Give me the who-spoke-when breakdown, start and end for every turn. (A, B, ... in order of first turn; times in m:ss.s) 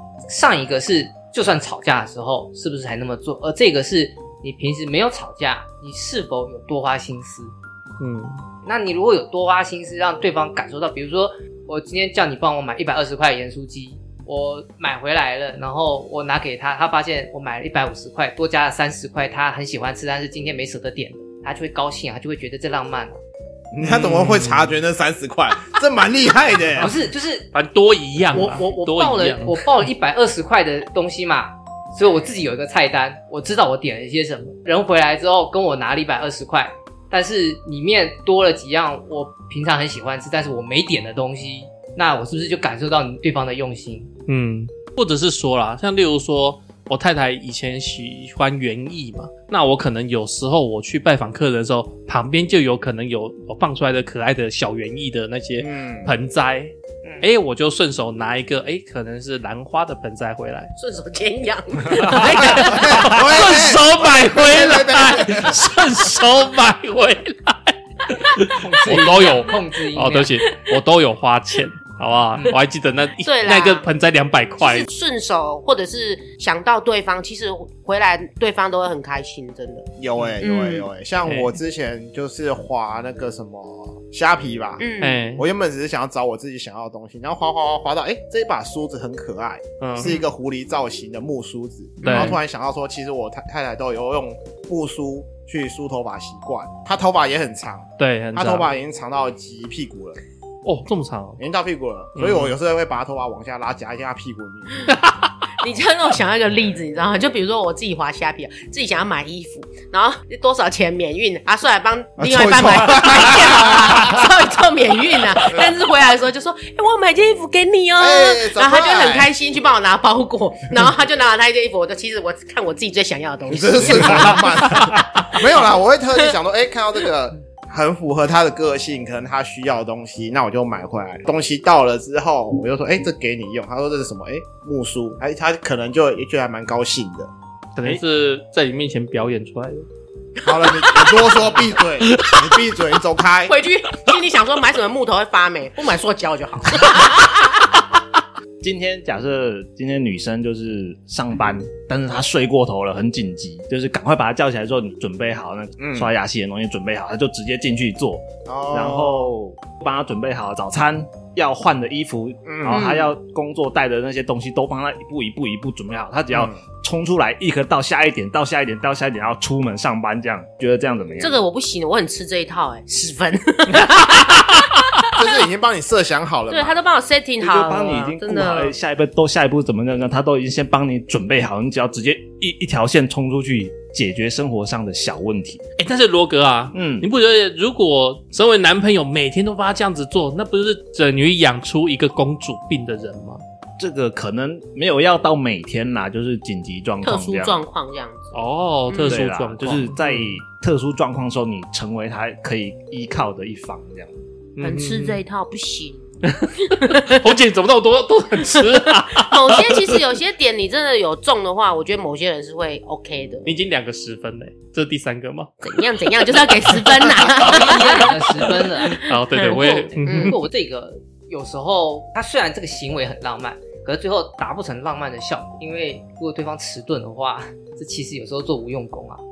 0:00.3-0:07.5 A
0:08.0-0:08.4 B
0:08.6-0:23.2 A
0:23.7-0:26.9 C
0:23.8-0:24.8 B
0:26.8-0:27.5 A
0:27.5-0:29.6 B
0:28.3-0:44.1 A
0:44.3-1:00.7 B
0:55.6-0:56.1 C
1:00.8-1:02.9 D
1:01.9-1:14.9 B
1:02.4-1:05.6 C
1:08.5-1:10.4 A
1:13.2-1:13.9 D
1:14.6-1:19.9 D
1:20.0-1:40.2 C
1:20.4-1:20.9 D
1:21.2-1:21.6 B
1:24.8-1:25.2 D
1:25.0-1:25.4 B
1:29.8-1:30.2 B
1:32.0-1:32.4 B
1:32.0-1:32.4 D
1:38.0-1:38.7 B
1:40.6-1:41.4 B
1:41.4-1:44.9 C
1:42.2-1:42.5 B
1:44.9-1:45.3 B
1:45.6-2:05.6 D
1:52.2-1:54.2 C
1:58.0-1:59.3 C
2:03.5-2:17.3 C
2:17.8-2:19.8 B
2:20.4-2:23.5 C
2:22.1-2:22.5 B
2:23.5-2:27.6 D
2:28.6-2:51.4 E
2:35.8-2:36.1 C
2:38.5-2:39.3 C
2:42.5-2:42.8 C
2:42.7-2:43.1 D
2:46.3-2:46.6 C
2:51.2-2:55.2 D
2:55.2-2:56.8 C
2:56.5-2:58.7 D
2:57.4-3:05.6 E
3:05.8-3:13.4 B
3:06.7-3:07.1 E
3:13.8-3:17.6 E
3:17.0-3:18.3 D
3:18.3-3:20.4 B
3:18.9-3:19.2 D
3:19.0-3:24.1 E
3:24.6-3:25.2 B
3:24.6-3:26.0 D
3:26.2-3:30.0 B
3:26.7-3:27.2 D
3:29.1-3:33.5 D
3:33.4-3:35.5 B
3:35.6-3:40.4 D
3:36.2-3:37.6 B
3:37.4-3:49.2 A
3:38.9-3:40.4 B